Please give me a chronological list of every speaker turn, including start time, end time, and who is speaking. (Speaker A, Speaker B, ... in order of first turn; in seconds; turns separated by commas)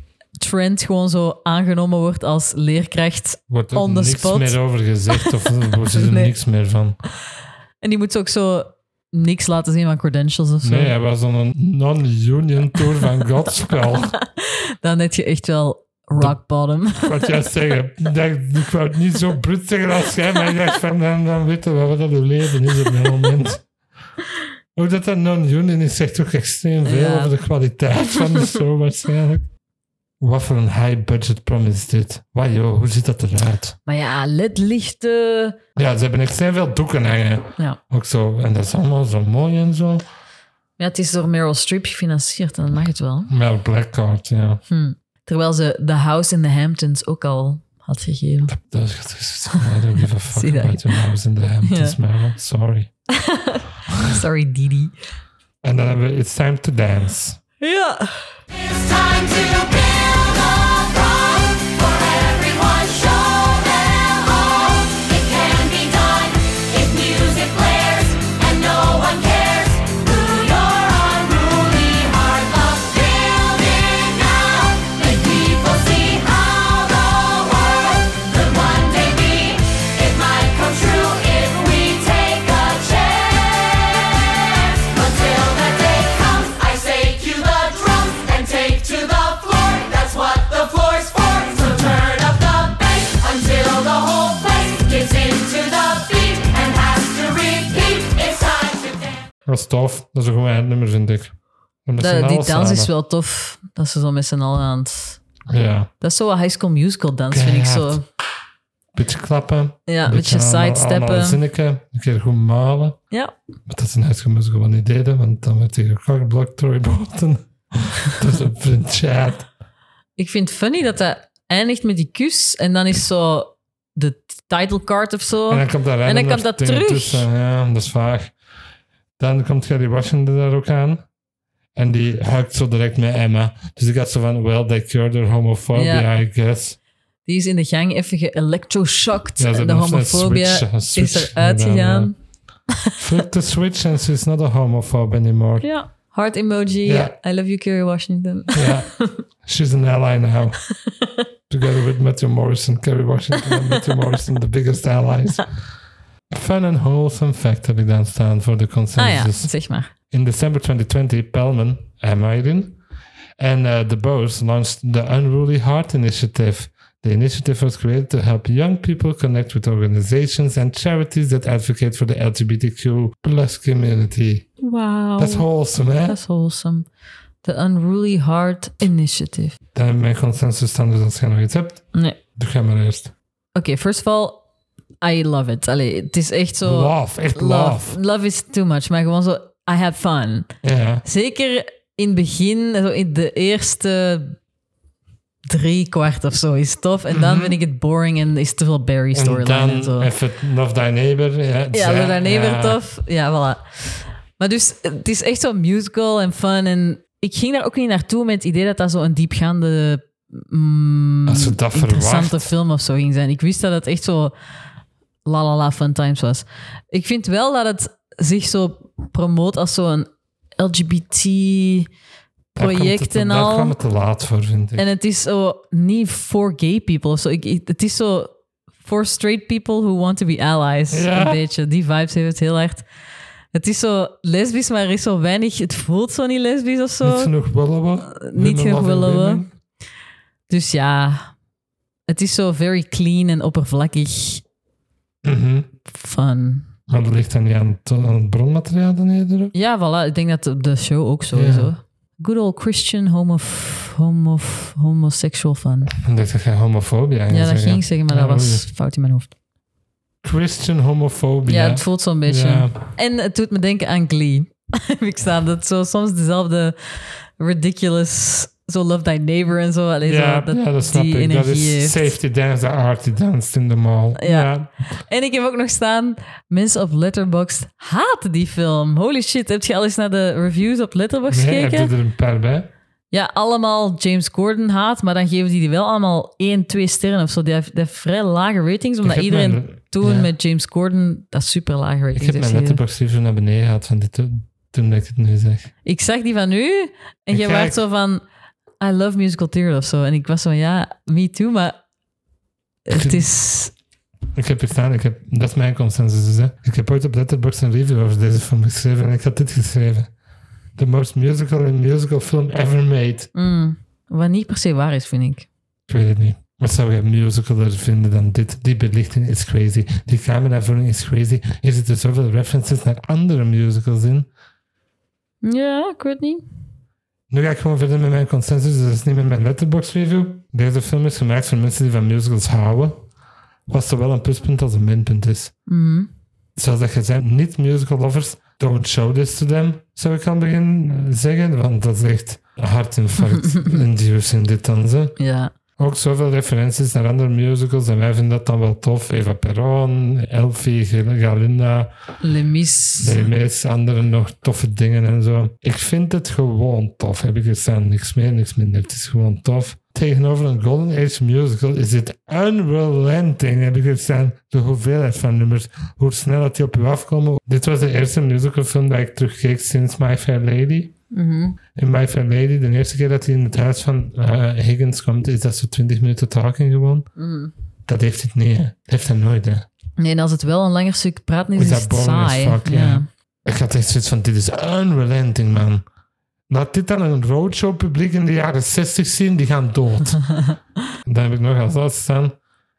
Speaker A: 0.4-4.6, Speaker B: 3.5-7.0, Speaker A: 5.9-6.3, Speaker A: 7.8-10.9, Speaker B: 10.6-14.1, Speaker A: 13.9-17.4, Speaker B: 16.9-23.6, Speaker B: 24.7-29.4, Speaker A: 26.8-27.3, Speaker B: 30.2-33.8, Speaker A: 33.9-35.6, Speaker B: 35.8-40.0, Speaker A: 40.8-43.3, Speaker B: 43.3-44.6, Speaker A: 44.7-48.5, Speaker B: 48.5-52.9, Speaker A: 50.3-51.0, Speaker A: 51.6-52.0, Speaker A: 53.1-54.9, Speaker B: 55.6-57.4, Speaker A: 57.6-58.3, Speaker C: 58.5-99.2, Speaker B: 99.5-101.3, Speaker B: 101.8-102.9, Speaker A: 102.0-105.2, Speaker B: 105.5-105.9, Speaker A: 106.0-108.0, Speaker B: 107.3-108.0, Speaker B: 108.9-113.0, Speaker A: 109.9-111.4, Speaker B: 113.7-119.5, Speaker A: 120.2-127.3, Speaker B: 125.5-128.3, Speaker B: 129.2-131.0, Speaker B: 131.7-136.8, Speaker A: 135.7-136.1, Speaker A: 137.2-142.1, Speaker B: 139.4-142.1, Speaker B: 142.9-145.7, Speaker A: 145.6-149.2, Speaker B: 146.8-147.1, Speaker B: 148.5-150.6, Speaker B: 151.5-155.5, Speaker B: 156.3-159.5, Speaker A: 159.0-159.9, Speaker B: 160.1-162.8, Speaker B: 163.4-174.5, Speaker A: 174.6-175.5, Speaker B: 175.2-176.2, Speaker A: 176.0-176.8, Speaker A: 177.4-179.6, Speaker B: 179.7-183.1, Speaker A: 181.9-182.2, Speaker A: 183.5-184.4, Speaker A: 185.0-190.5, Speaker B: 186.6-188.0, Speaker B: 190.6-191.0, Speaker A: 191.0-194.3, Speaker A: 195.5-200.1, Speaker B: 197.1-197.6, Speaker B: 199.1-202.8, Speaker A: 201.7-214.3, Speaker B: 211.3-212.5, Speaker A: 215.2-221.9, Speaker A: 222.5-223.8, Speaker B: 222.6-224.9, Speaker A: 224.8-228.3, Speaker A: 228.8-232.8, Speaker B: 230.9-231.4, Speaker A: 233.5-237.3, Speaker B: 237.0-239.5, Speaker A: 238.1-239.4, Speaker A: 240.5-241.3, Speaker A: 242.1-244.4, Speaker B: 245.2-245.7, Speaker A: 245.9-246.7, Speaker B: 246.9-249.5, Speaker A: 249.5-255.9, Speaker B: 251.3-251.7, Speaker B: 255.9-258.6, Speaker A: 257.3-259.3, Speaker B: 260.2-262.8, Speaker A: 261.4-272.1, Speaker B: 270.0-274.7, Speaker A: 274.2-281.9, Speaker B: 281.3-282.7, Speaker A: 283.1-292.8, Speaker B: 289.0-290.3, Speaker B: 292.1-295.7, Speaker A: 295.8-298.2, Speaker B: 297.3-297.8, Speaker A: 298.8-301.8, Speaker A: 302.9-303.7, Speaker B: 302.9-303.3, Speaker B: 304.3-310.1, Speaker B: 310.8-313.3, Speaker A: 313.3-315.5, Speaker B: 315.9-324.3, Speaker A: 325.4-326.4, Speaker B: 327.3-333.0, Speaker B: 333.7-335.5, Speaker A: 335.7-336.1, Speaker B: 336.6-345.1, Speaker A: 343.2-343.8, Speaker A: 345.2-345.5, Speaker B: 345.8-351.9, Speaker A: 352.2-353.2, Speaker B: 353.0-370.9, Speaker A: 371.1-371.6, Speaker B: 371.7-377.1, Speaker A: 377.1-377.5, Speaker B: 377.9-379.7, Speaker A: 380.0-383.1, Speaker B: 381.6-385.8, Speaker B: 386.5-390.2, Speaker B: 391.0-392.4